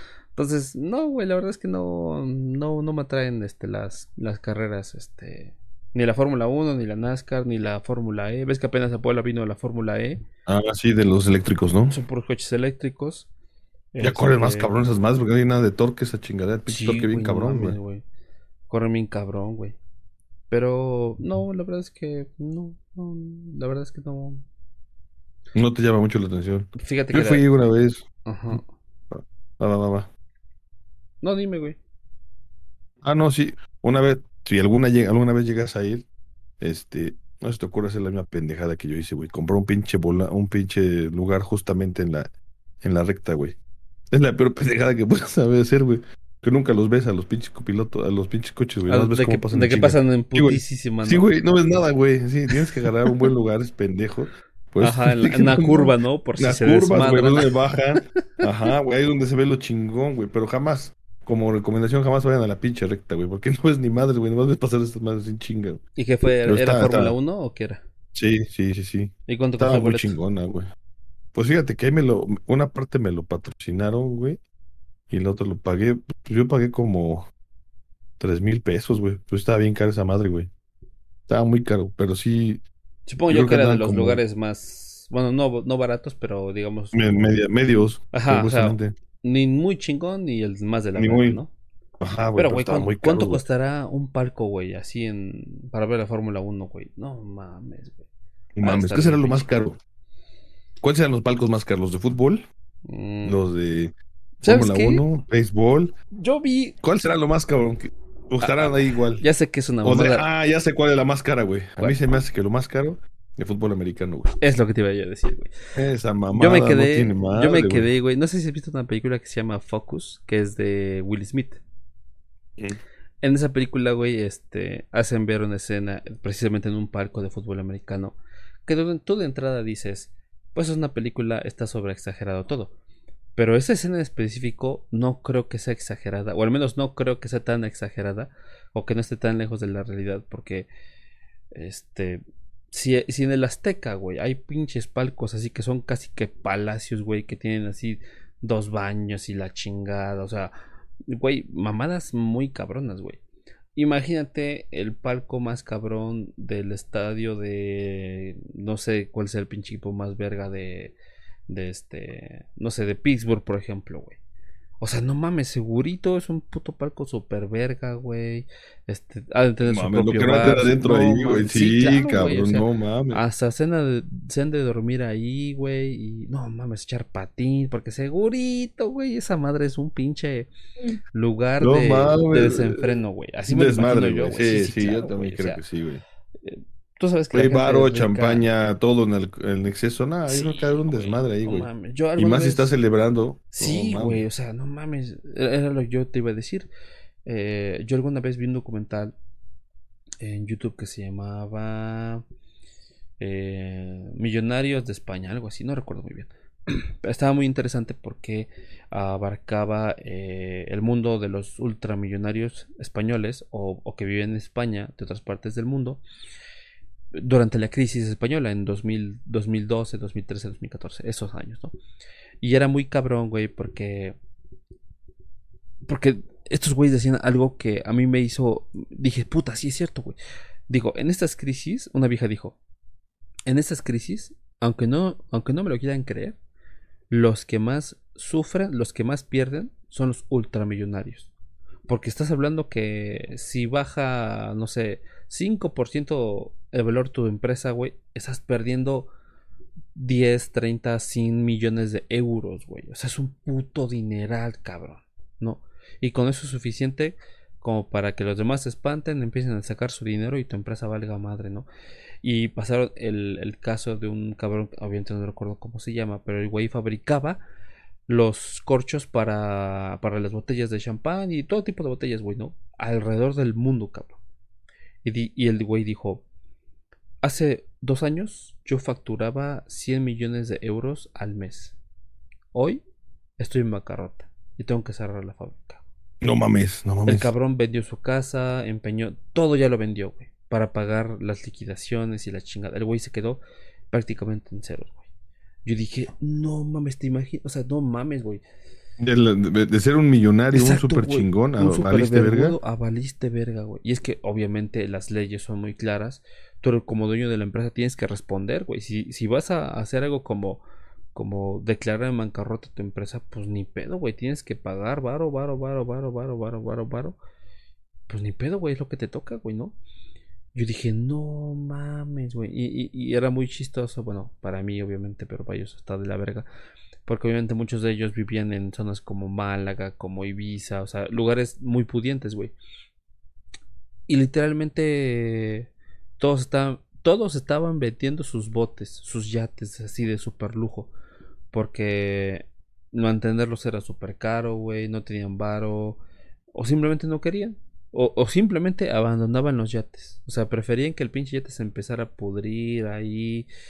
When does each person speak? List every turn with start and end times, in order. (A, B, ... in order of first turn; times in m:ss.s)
0:00.4-0:10.2 A
0:10.5-0:12.0 B
0:11.9-0:13.3 A
0:13.9-0:14.8 A
0:14.0-0:17.8 B
0:16.7-0:18.0 A
0:18.7-0:19.8 A
0:20.5-0:24.4 A
0:25.5-0:28.6 B
0:26.8-0:27.5 A
0:28.3-0:28.7 A
0:29.1-0:30.1 B
0:31.2-0:31.8 A
0:33.0-0:36.0 B
0:36.6-0:42.3 B
0:42.8-0:43.6 B
0:44.1-1:05.8 B
0:48.9-0:51.3 A
0:54.8-0:57.5 A
1:06.0-1:07.8 A
1:06.5-1:07.2 B
1:08.2-1:10.7 B
1:09.3-1:10.2 A
1:11.4-1:14.4 B
1:15.1-1:17.3 B
1:18.2-1:20.5 B
1:21.3-1:22.6 B
1:23.1-1:27.4 A
1:23.3-1:24.2 B
1:26.9-1:29.0 B
1:28.1-1:31.5 A
1:31.0-1:31.4 B
1:32.0-1:33.4 B
1:32.4-1:38.0 A
1:38.6-1:39.8 B
1:38.6-1:39.5 A
1:40.8-1:42.5 B
1:42.9-1:43.4 A
1:43.2-1:45.9 B
1:44.4-1:45.0 A
1:46.2-1:46.8 A
1:46.8-1:49.2 B
1:48.4-1:50.3 A
1:49.8-1:54.4 B
1:54.4-1:55.5 A
1:55.8-1:57.9 B
1:56.3-2:01.6 A
2:03.2-2:12.7 A
2:13.4-2:20.7 A
2:21.5-2:30.5 A
2:31.1-2:33.2 A
2:33.8-2:41.0 A
2:41.5-2:44.2 A
2:44.8-3:00.5 A
2:49.6-2:53.2 B
3:01.1-3:05.6 A
3:01.6-3:03.0 B
3:03.5-3:06.0 B
3:06.4-3:08.5 A
3:07.3-3:14.2 B
3:10.3-3:12.7 A
3:13.5-3:16.7 A
3:17.2-3:19.2 A
3:20.2-3:22.2 A
3:23.2-3:36.0 A
3:37.2-3:41.7 A
3:42.4-3:44.2 A
3:45.9-3:50.2 A
3:50.7-3:52.6 A
3:53.5-3:56.4 A
3:57.1-4:01.3 A
4:01.9-4:09.1 A
4:10.0-4:21.7 A
4:22.2-4:27.4 A
4:28.1-4:34.2 A
4:35.0-4:36.2 A
4:37.2-4:41.8 A
4:42.5-4:42.8 A
4:43.4-4:45.8 A
4:46.2-4:47.3 B
4:47.1-4:55.0 A
4:55.6-4:58.4 A
4:59.0-5:02.6 B
5:00.5-5:10.6 A
5:11.2-5:17.2 A
5:18.1-5:19.8 A
5:20.6-5:26.5 A
5:27.1-5:32.5 A
5:34.1-5:40.9 A
5:41.5-5:46.0 A
5:46.5-5:53.5 A